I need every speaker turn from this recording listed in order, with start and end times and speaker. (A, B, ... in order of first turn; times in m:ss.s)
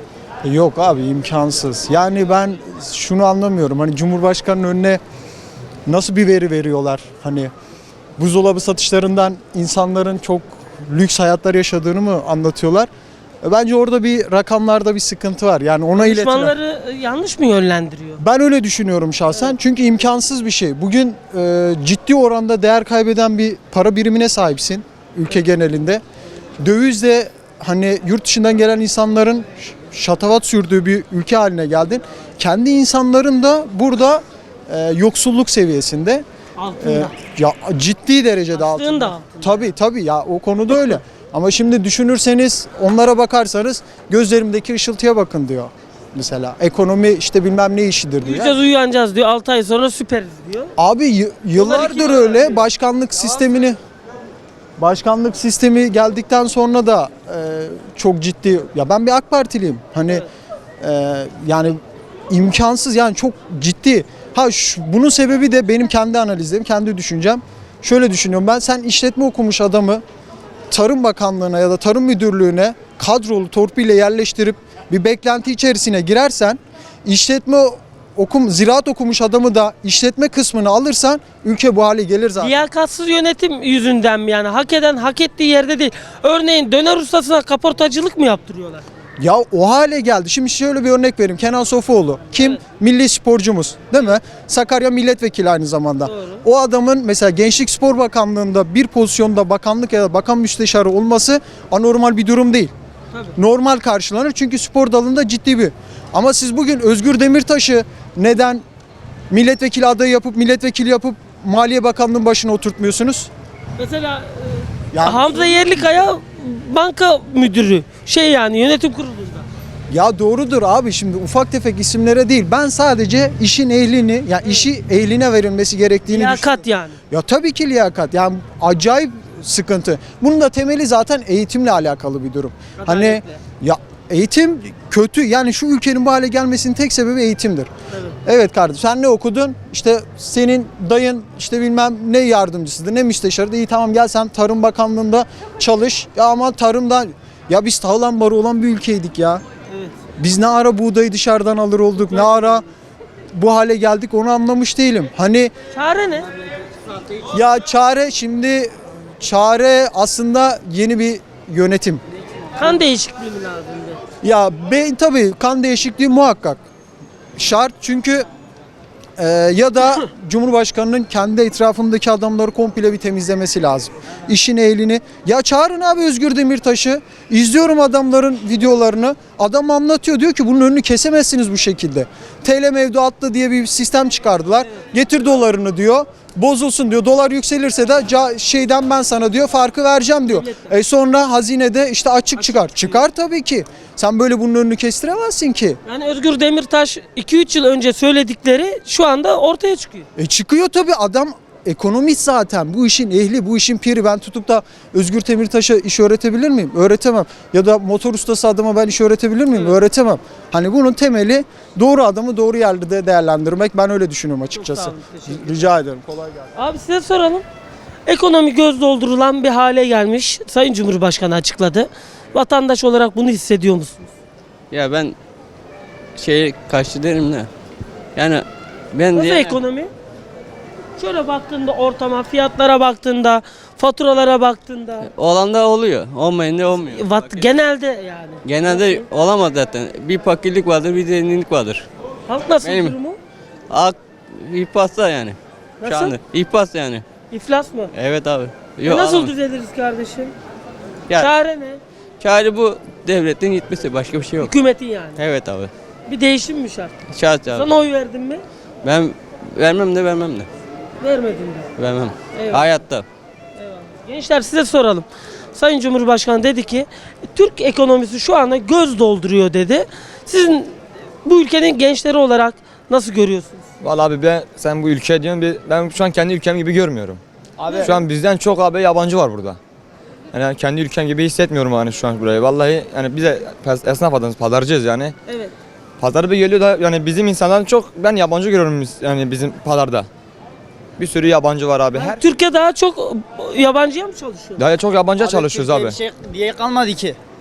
0:00.4-0:05.0 A
0:05.8-0:07.5 A
0:08.2-0:12.9 A
0:13.4-0:16.5 A
0:15.9-0:18.2 B
0:18.2-0:26.0 A
0:26.6-0:36.2 A
0:36.6-0:37.1 B
0:36.8-0:48.5 A
0:38.6-0:39.6 B
0:48.2-0:50.7 B
0:50.8-0:53.8 A
0:51.5-0:52.6 B
0:54.8-1:00.2 A
1:00.8-1:10.0 A
1:10.7-1:22.6 A
1:22.4-1:28.8 B
1:29.2-1:42.7 A
1:36.0-1:36.4 B
1:43.4-1:48.6 A
1:49.3-1:53.3 A
1:53.8-1:59.4 B
1:54.9-1:55.8 A
1:59.9-2:06.6 A
2:06.1-2:07.0 B
2:07.1-2:17.7 A
2:12.8-2:13.4 B
2:18.2-2:29.4 A
2:30.2-2:32.6 A
2:33.3-2:35.5 A
2:35.7-2:36.3 B
2:37.3-2:42.0 A
2:42.6-2:44.0 B
2:44.2-2:46.6 A
2:47.4-2:48.2 A
2:49.2-3:15.8 A
3:10.3-3:10.7 B
3:12.7-3:12.9 B
3:15.8-3:20.1 B
3:20.2-3:36.2 A
3:34.5-3:35.4 B
3:36.6-3:37.4 B
3:38.1-3:44.1 B
3:44.7-3:45.1 C
3:46.2-3:47.5 C
3:48.2-3:49.6 C
3:49.1-3:49.9 B
3:51.0-3:55.1 B
3:55.0-3:57.5 C
3:56.9-3:59.0 B
3:58.4-4:01.8 C
4:02.3-4:03.2 B
4:02.6-4:02.9 C
4:03.7-4:07.0 C
4:05.8-4:06.1 B
4:07.3-4:07.9 B
4:07.9-4:09.3 C
4:08.8-4:10.3 B
4:11.2-4:11.8 B
4:12.2-4:14.5 C
4:14.4-4:15.2 B
4:15.2-4:15.7 C
4:16.1-4:16.9 B
4:17.1-4:17.7 C
4:17.5-4:18.4 B
4:18.8-4:20.5 C
4:21.0-4:21.7 B
4:21.8-4:23.0 C
4:22.3-4:22.7 B
4:23.6-4:30.7 B
4:31.2-4:33.6 B
4:33.8-4:37.2 D
4:37.6-4:38.0 E
4:37.8-4:39.6 D
4:40.3-4:45.1 D
4:45.3-4:45.5 B
4:46.0-4:50.1 D
4:51.0-4:52.2 D
4:51.9-4:54.6 B
4:54.6-4:56.0 D
4:55.2-4:57.2 E